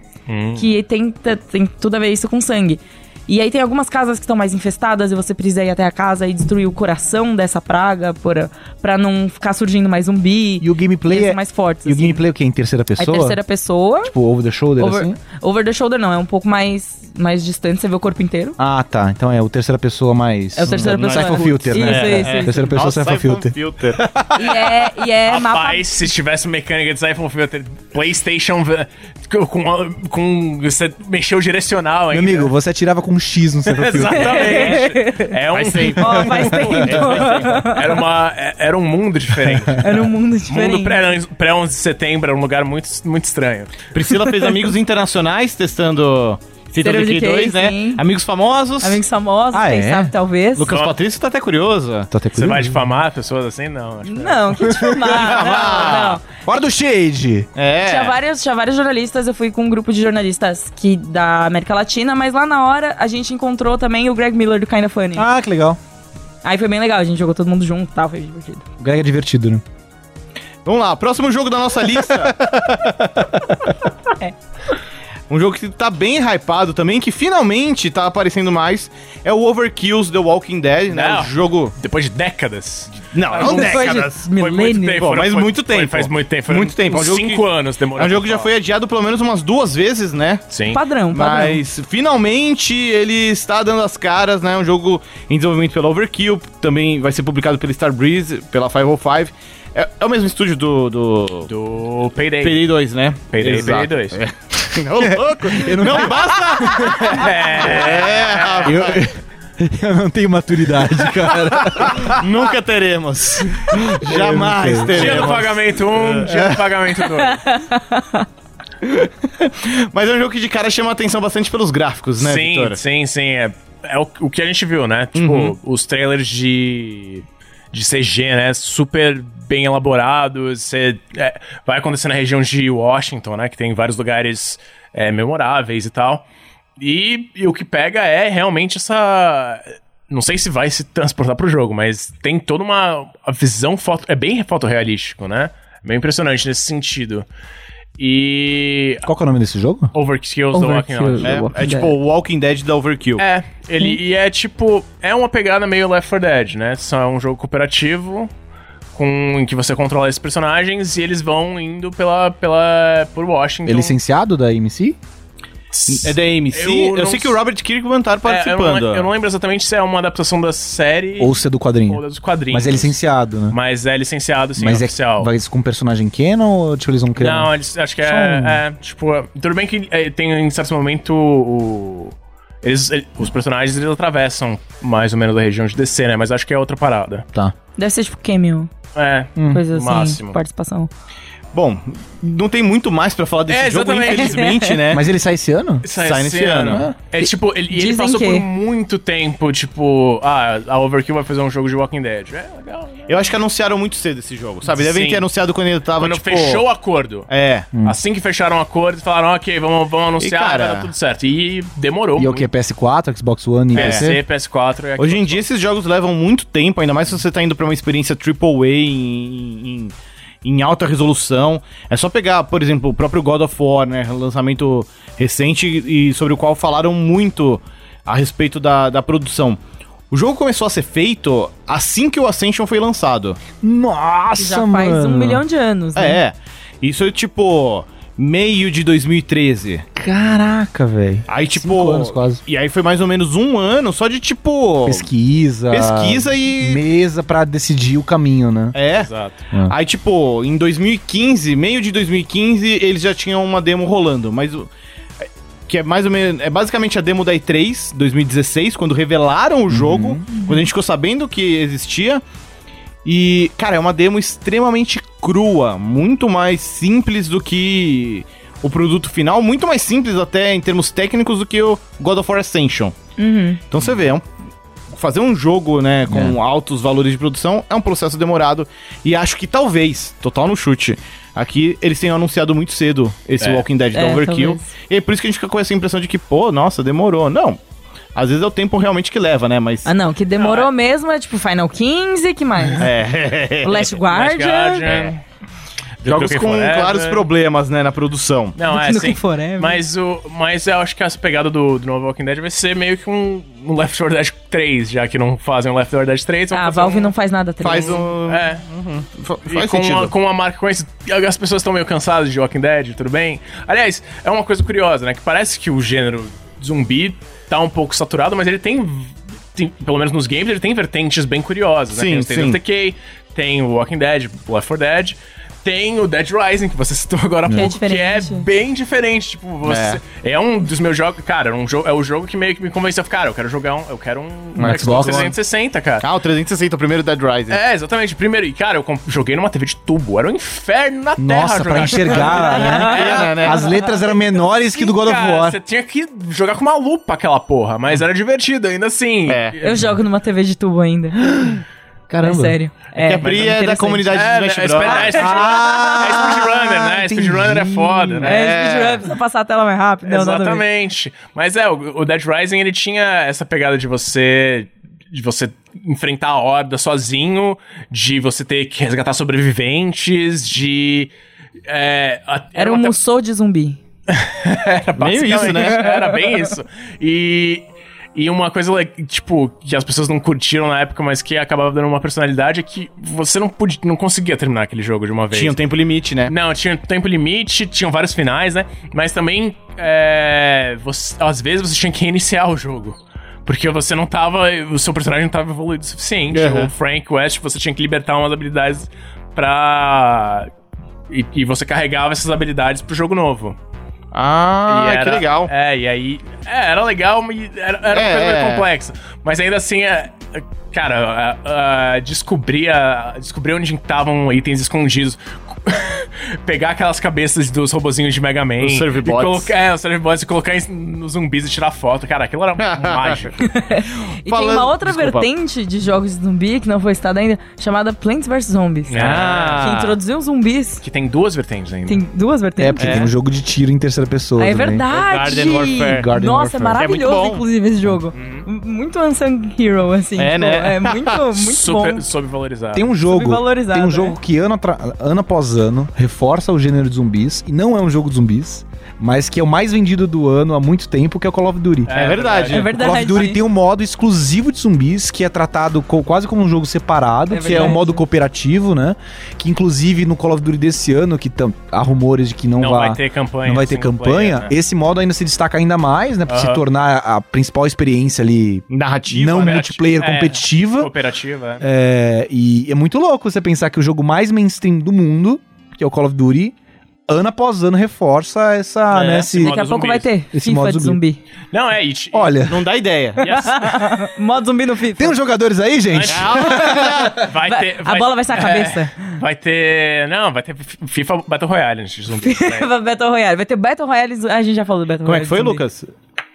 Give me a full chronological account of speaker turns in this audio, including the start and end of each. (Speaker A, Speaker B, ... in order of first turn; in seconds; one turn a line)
Speaker A: 0.3-0.7
Speaker B: 0.6-12.2
Speaker C: 10.6-13.4
Speaker B: 13.0-14.1
Speaker C: 14.0-15.2
Speaker B: 14.8-18.6
Speaker C: 18.6-23.5
Speaker B: 20.5-22.6
Speaker D: 20.7-24.6
Speaker B: 24.3-25.8
Speaker A: 25.2-32.5
Speaker C: 32.1-34.6
Speaker A: 33.7-43.9
Speaker B: 34.1-35.3
Speaker D: 34.4-34.8
Speaker D: 35.5-37.7
Speaker B: 36.0-38.0
Speaker C: 36.4-37.0
Speaker B: 39.8-41.0
Speaker D: 43.9-49.0
Speaker B: 44.1-44.7
Speaker B: 46.8-48.0
Speaker B: 48.8-50.7
Speaker C: 49.5-50.1
Speaker D: 50.5-52.1
Speaker A: 50.6-50.9
Speaker C: 52.1-52.8
Speaker A: 52.3-54.6
Speaker B: 54.0-56.2
Speaker C: 54.6-57.5
Speaker D: 55.1-56.2
Speaker D: 57.5-58.1
Speaker B: 57.8-65.3
Speaker C: 65.2-65.8
Speaker B: 66.4-68.6
Speaker C: 68.8-69.6
Speaker D: 70.6-73.4
Speaker D: 75.3-81.7
Speaker A: 80.9-88.5
Speaker D: 83.1-84.2
Speaker B: 83.3-85.0
Speaker D: 85.0-90.4
Speaker A: 90.5-90.8
Speaker B: 90.7-91.6
Speaker D: 91.1-101.5
Speaker A: 101.5-102.7
Speaker D: 102.4-109.0
Speaker A: 103.3-104.2
Speaker C: 105.0-107.3
Speaker A: 106.9-108.9
Speaker C: 108.6-112.2
Speaker D: 111.3-116.3
Speaker C: 113.7-115.3
Speaker A: 114.9-117.4
Speaker C: 116.2-116.7
Speaker B: 117.1-118.2
Speaker D: 118.8-122.8
Speaker A: 122.2-136.2
Speaker D: 125.2-125.5
Speaker A: 136.8-147.2
Speaker A: 148.0-149.1
Speaker C: 149.1-149.9
Speaker A: 149.9-151.5
Speaker B: 150.5-151.9
Speaker D: 151.2-153.2
Speaker A: 153.2-158.3
Speaker A: 158.9-163.9
Speaker C: 163.7-165.0
Speaker A: 165.7-167.4
Speaker D: 165.9-169.1
Speaker A: 168.2-173.0
Speaker C: 171.2-173.6
Speaker A: 173.5-175.3
Speaker C: 174.6-177.5
Speaker A: 177.2-187.2
Speaker C: 178.0-178.6
Speaker B: 187.8-188.7
Speaker A: 188.9-190.4
Speaker C: 189.3-189.6
Speaker B: 189.5-190.9
Speaker D: 191.5-195.1
Speaker A: 193.5-194.6
Speaker B: 194.1-194.8
Speaker C: 194.9-195.8
Speaker A: 195.8-203.3
Speaker D: 195.9-196.9
Speaker B: 197.2-198.4
Speaker D: 203.1-206.7
Speaker A: 204.7-205.3
Speaker A: 206.0-207.3
Speaker D: 207.3-207.7
Speaker A: 207.8-212.5
Speaker D: 210.2-210.9
Speaker C: 212.2-214.2
Speaker D: 213.7-214.1
Speaker A: 213.7-215.5
Speaker D: 215.0-229.6
Speaker D: 230.1-233.4
Speaker C: 233.6-235.4
Speaker B: 234.4-236.2
Speaker D: 235.9-239.8
Speaker C: 239.9-242.4
Speaker D: 241.3-245.1
Speaker C: 244.8-248.8
Speaker D: 245.7-246.8
Speaker D: 248.7-249.1
Speaker A: 248.9-249.4
Speaker D: 249.7-254.7
Speaker D: 255.7-262.2
Speaker C: 259.7-260.3
Speaker D: 263.0-272.9
Speaker B: 273.2-273.6
Speaker D: 273.7-274.2
Speaker D: 274.9-287.6
Speaker C: 276.1-276.4
Speaker A: 283.4-283.6
Speaker B: 283.9-284.7
Speaker D: 288.1-289.9
Speaker B: 289.8-292.9
Speaker A: 290.4-290.7
Speaker D: 292.8-293.9
Speaker B: 293.6-294.9
Speaker A: 294.1-295.2
Speaker D: 294.8-295.1
Speaker A: 296.0-297.2
Speaker D: 296.0-298.6
Speaker A: 298.6-307.1
Speaker B: 298.7-299.8
Speaker B: 306.5-308.1
Speaker A: 307.6-308.6
Speaker D: 307.6-310.1
Speaker A: 309.5-336.1
Speaker D: 321.9-322.6
Speaker B: 327.5-328.4
Speaker D: 329.6-330.0
Speaker C: 334.6-335.3
Speaker D: 334.6-335.3
Speaker D: 336.0-337.6
Speaker A: 337.5-343.3
Speaker C: 341.2-345.6
Speaker B: 342.1-344.0
Speaker D: 342.7-343.7
Speaker A: 344.7-349.9
Speaker D: 349.3-349.6
Speaker B: 349.6-351.6
Speaker C: 352.1-352.6
Speaker B: 352.2-354.2
Speaker D: 353.0-355.9
Speaker A: 353.2-353.6
Speaker A: 354.1-358.4
Speaker B: 354.8-356.0
Speaker C: 355.2-358.3
Speaker D: 358.2-359.1
Speaker B: 358.2-360.6
Speaker A: 360.1-371.1
Speaker A: 371.7-372.9
Speaker B: 372.6-373.8
Speaker A: 374.1-385.6
Speaker D: 375.0-375.9
Speaker B: 375.6-376.2
Speaker D: 385.3-386.3
Speaker A: 386.3-400.5
Speaker D: 396.3-396.7
Speaker A: 401.1-403.6
Speaker D: 404.1-405.5
Speaker A: 404.7-423.5
Speaker D: 407.9-408.6
Speaker D: 418.6-419.5
Speaker D: 422.6-423.3
Speaker B: 423.4-429.0
Speaker D: 424.3-425.3
Speaker A: 428.9-429.7
Speaker D: 429.0-430.0
Speaker B: 429.6-430.8
Speaker A: 430.8-432.0
Speaker B: 431.9-433.1
Speaker C: 432.6-434.8
Speaker D: 432.8-433.1
Speaker B: 434.4-442.0
Speaker D: 434.9-436.1
Speaker C: 435.7-436.8
Speaker D: 436.8-437.4
Speaker A: 438.1-438.5
Speaker D: 440.2-441.2
Speaker A: 441.3-442.9
Speaker C: 442.7-451.9
Speaker B: 443.0-444.2
Speaker A: 451.9-452.7
Speaker D: 451.9-452.7
Speaker B: 452.4-453.4
Speaker C: 452.7-470.9
Speaker B: 457.3-458.0
Speaker A: 462.6-464.5
Speaker A: 466.3-466.6
Speaker D: 468.7-469.8
Speaker A: 469.9-471.6
Speaker C: 471.6-476.5
Speaker C: 477.1-479.5
Speaker D: 478.9-479.3
Speaker A: 479.3-480.1
Speaker B: 479.4-481.2
Speaker C: 480.3-481.0
Speaker A: 481.5-482.4
Speaker C: 482.1-482.6
Speaker D: 482.4-483.5
Speaker B: 483.2-485.2
Speaker A: 483.2-483.6
Speaker C: 485.0-487.1
Speaker A: 485.9-492.7
Speaker D: 486.1-487.2
Speaker B: 487.4-489.1
Speaker B: 492.1-495.6
Speaker D: 495.0-495.9